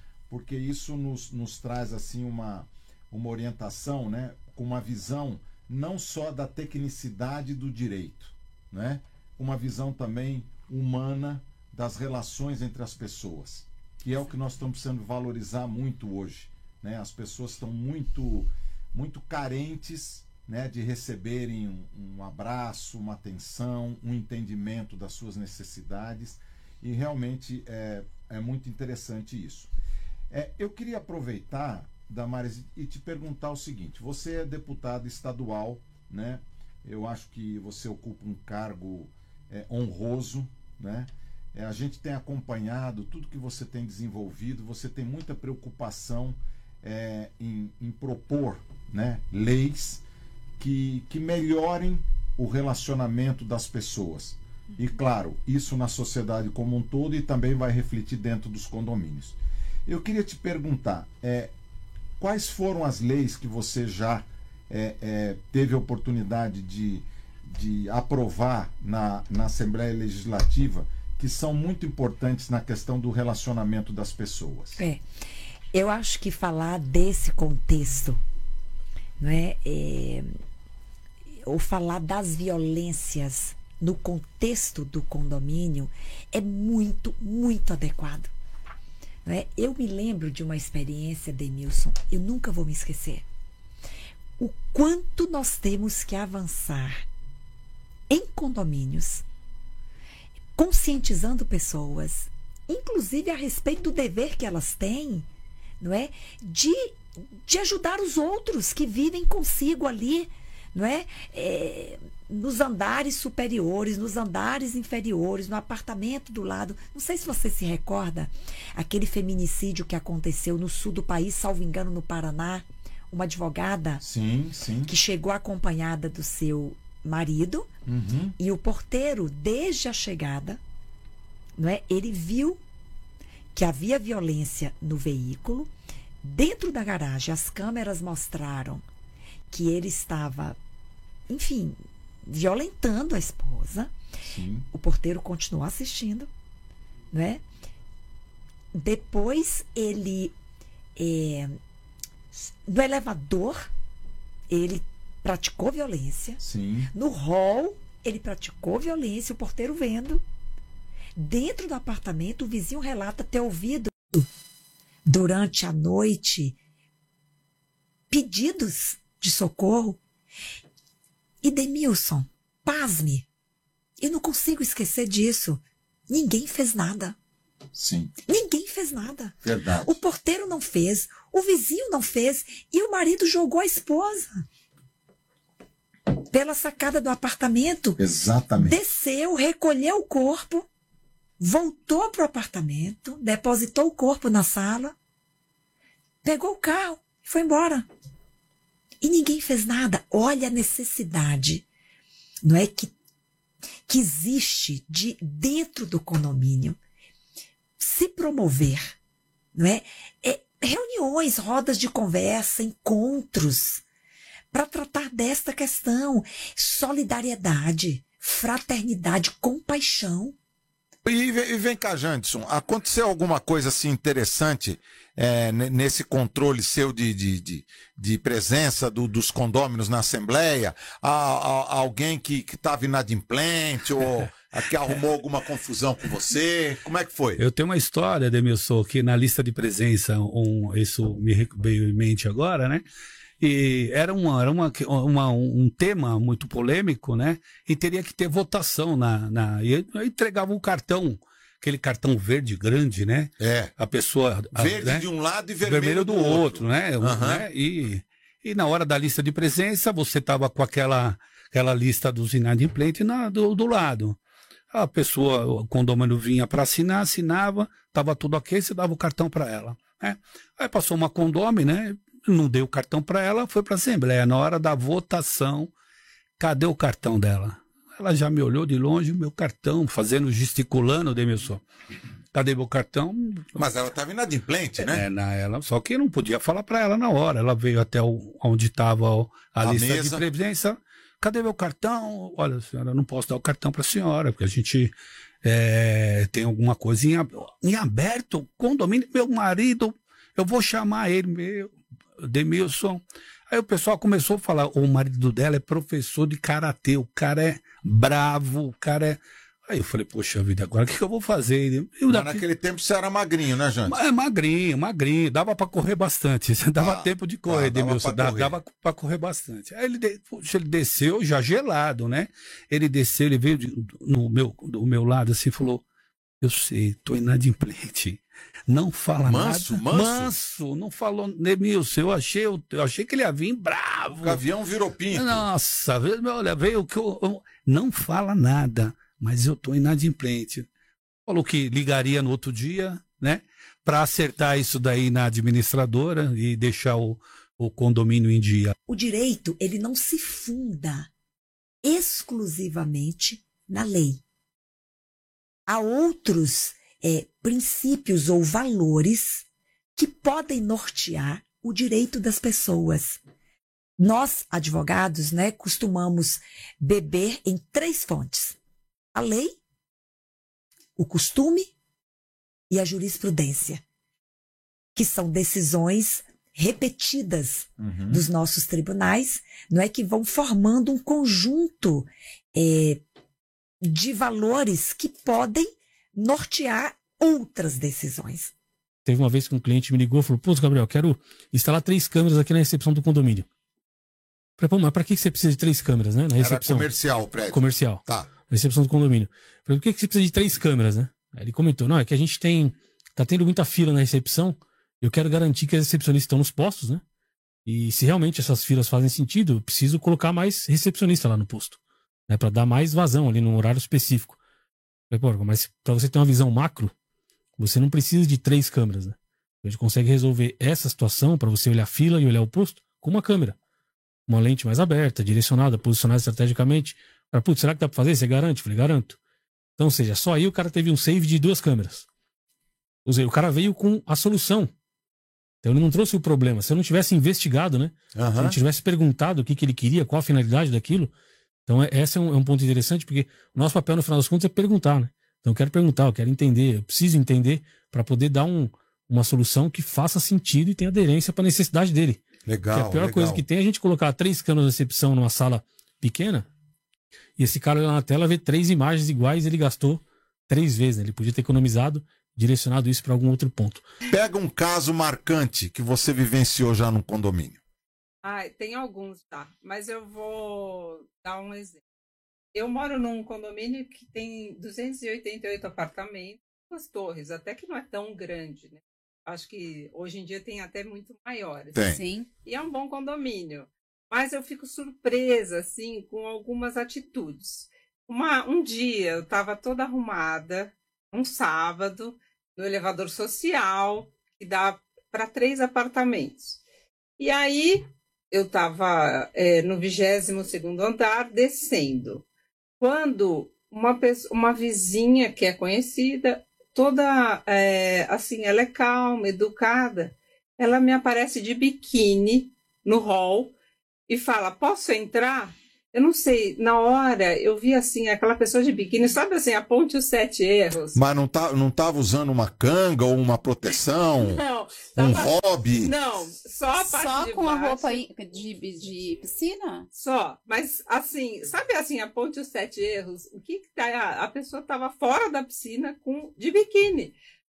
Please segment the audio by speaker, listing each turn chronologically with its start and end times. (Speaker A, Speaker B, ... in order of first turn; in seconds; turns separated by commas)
Speaker A: 0.3-29.7, Speaker A: 30.3-50.0, Speaker A: 50.6-61.5, Speaker A: 62.2-74.8, Speaker B: 74.8-75.0, Speaker B: 75.7-78.2, Speaker B: 79.2-80.3, Speaker B: 81.5-88.3, Speaker B: 89.2-93.2, Speaker B: 94.4-97.0, Speaker B: 98.1-99.2, Speaker B: 100.5-105.3, Speaker B: 105.8-124.0, Speaker A: 124.0-124.9, Speaker B: 124.8-127.7, Speaker A: 127.8-128.3, Speaker B: 128.4-130.6, Speaker B: 131.6-132.6, Speaker B: 133.5-135.7, Speaker B: 136.2-138.8, Speaker B: 139.5-140.6, Speaker B: 141.3-143.9, Speaker A: 144.2-144.6, Speaker B: 144.7-146.3, Speaker B: 147.1-147.4, Speaker B: 148.7-150.3, Speaker B: 151.0-151.6, Speaker B: 152.3-153.7, Speaker B: 154.5-156.4, Speaker A: 156.4-156.9, Speaker B: 156.9-160.2, Speaker B: 161.2-164.3, Speaker B: 165.1-166.6, Speaker B: 168.1-170.0, Speaker B: 171.4-173.2, Speaker B: 174.0-177.2, Speaker A: 177.7-178.1, Speaker B: 178.3-184.4, Speaker A: 179.4-180.0, Speaker B: 186.2-188.0, Speaker A: 188.0-188.8, Speaker B: 188.6-190.7, Speaker B: 191.4-194.9, Speaker B: 196.2-197.9, Speaker B: 199.0-201.7, Speaker B: 202.4-202.9, Speaker B: 203.9-206.8, Speaker B: 207.8-208.9, Speaker B: 209.5-213.8, Speaker B: 214.5-220.3, Speaker A: 221.0-237.4, Speaker C: 237.4-242.8, Speaker C: 243.4-255.1, Speaker A: 253.4-253.7, Speaker A: 254.5-257.4, Speaker C: 255.6-264.2, Speaker C: 264.7-275.7, Speaker C: 276.4-281.6, Speaker C: 282.3-283.6, Speaker A: 283.5-285.0, Speaker C: 284.8-312.4, Speaker A: 289.6-290.2, Speaker A: 312.1-314.0, Speaker C: 313.9-325.8, Speaker A: 316.8-318.6, Speaker C: 326.4-334.4, Speaker A: 329.2-330.3, Speaker A: 334.1-335.4, Speaker C: 335.1-340.7, Speaker C: 341.2-348.7, Speaker B: 348.9-351.1, Speaker B: 351.8-354.2, Speaker B: 355.7-359.4, Speaker B: 359.9-363.2, Speaker B: 364.0-368.6, Speaker B: 369.1-369.6, Speaker B: 371.0-371.7, Speaker B: 372.7-373.8, Speaker B: 374.9-383.0, Speaker A: 377.8-378.2, Speaker B: 383.8-388.5, Speaker D: 389.1-393.5, Speaker D: 394.6-396.9, Speaker A: 396.4-398.3, Speaker D: 397.4-407.0, Speaker D: 407.6-414.4, Speaker D: 415.1-416.9, Speaker D: 417.6-423.6, Speaker D: 424.3-429.2, Speaker D: 429.8-432.1, Speaker D: 433.0-434.7, Speaker D: 435.6-441.1, Speaker A: 438.1-438.6, Speaker D: 441.7-452.2, Speaker A: 452.4-453.4, Speaker D: 452.7-456.5, Speaker D: 457.4-463.8, Speaker A: 464.0-467.6, Speaker E: 468.2-471.8, Speaker E: 472.5-496.6, Speaker A: 481.7-482.0, Speaker F: 481.9-482.3, Speaker E: 497.2-502.2, Speaker E: 502.8-513.5, Speaker E: 514.1-521.0, Speaker A: 520.9-524.4, Speaker E: 524.2-528.1, Speaker A: 524.9-525.9, Speaker F: 526.8-529.9, Speaker E: 529.9-537.1